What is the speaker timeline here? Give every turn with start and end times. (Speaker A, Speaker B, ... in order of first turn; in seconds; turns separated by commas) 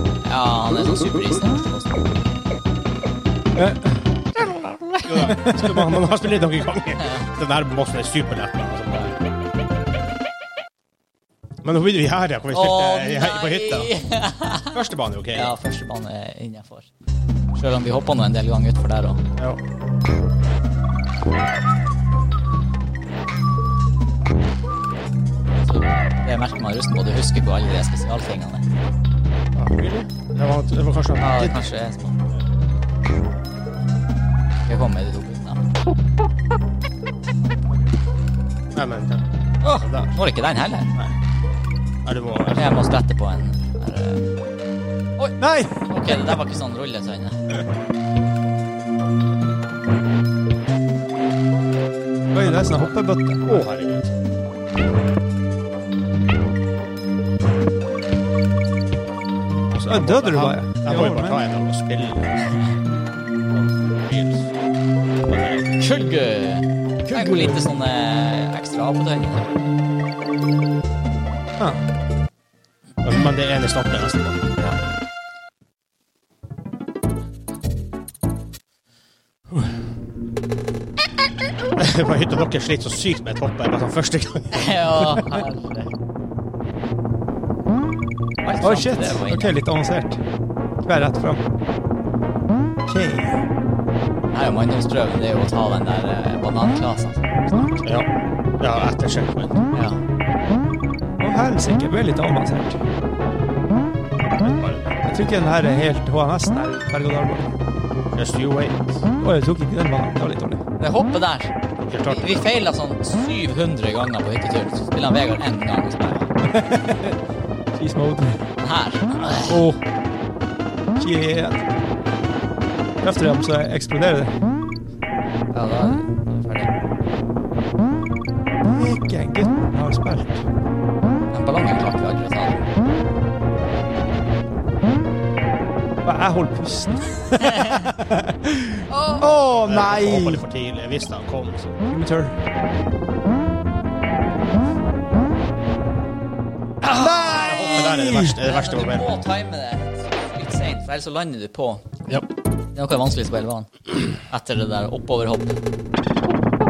Speaker A: 0.2-2.2, Speaker B: 3.5-4.0, Speaker C: 5.1-9.2, Speaker B: 5.2-6.1, Speaker C: 11.6-13.9, Speaker A: 12.5-14.8, Speaker C: 14.7-15.6, Speaker A: 15.3-16.9, Speaker A: 17.5-19.2, Speaker A: 25.6-28.6, Speaker C: 29.6-31.7, Speaker A: 31.2-32.2, Speaker A: 34.7-35.7, Speaker C: 38.7-40.2, Speaker A: 39.6-40.9, Speaker C: 42.0-42.8, Speaker A: 42.6-44.3, Speaker B: 45.4-46.4, Speaker A: 45.9-47.4, Speaker B: 52.3-53.7, Speaker A: 52.4-53.0, Speaker C: 53.4-54.1, Speaker C: 59.7-62.5, Speaker B: 59.9-61.4, Speaker C: 63.5-64.5, Speaker C: 65.2-65.7, Speaker A: 65.8-69.5, Speaker B: 67.1-67.8, Speaker C: 73.0-74.5, Speaker C: 81.8-85.2, Speaker A: 84.5-85.9, Speaker A: 88.4-89.6, Speaker B: 88.6-90.2, Speaker B: 90.8-91.4, Speaker B: 92.9-93.4, Speaker A: 94.3-97.8, Speaker C: 97.8-99.6, Speaker A: 99.7-100.0, Speaker B: 101.2-102.9, Speaker C: 104.2-105.1, Speaker B: 105.1-107.5, Speaker C: 108.1-109.0, Speaker B: 109.2-110.6, Speaker A: 110.8-111.5, Speaker C: 111.8-112.5, Speaker A: 112.0-116.3, Speaker B: 116.4-117.2, Speaker B: 117.7-118.4, Speaker A: 118.6-119.6, Speaker B: 119.5-119.8, Speaker B: 121.0-121.7, Speaker B: 123.0-124.4, Speaker A: 125.5-126.7, Speaker B: 128.7-130.5, Speaker A: 131.3-132.6, Speaker B: 136.0-140.4, Speaker A: 137.6-137.8, Speaker A: 138.9-139.3, Speaker C: 139.3-141.8, Speaker B: 141.9-142.4, Speaker A: 146.8-151.8, Speaker B: 146.9-148.4, Speaker C: 147.3-149.2, Speaker A: 152.8-155.6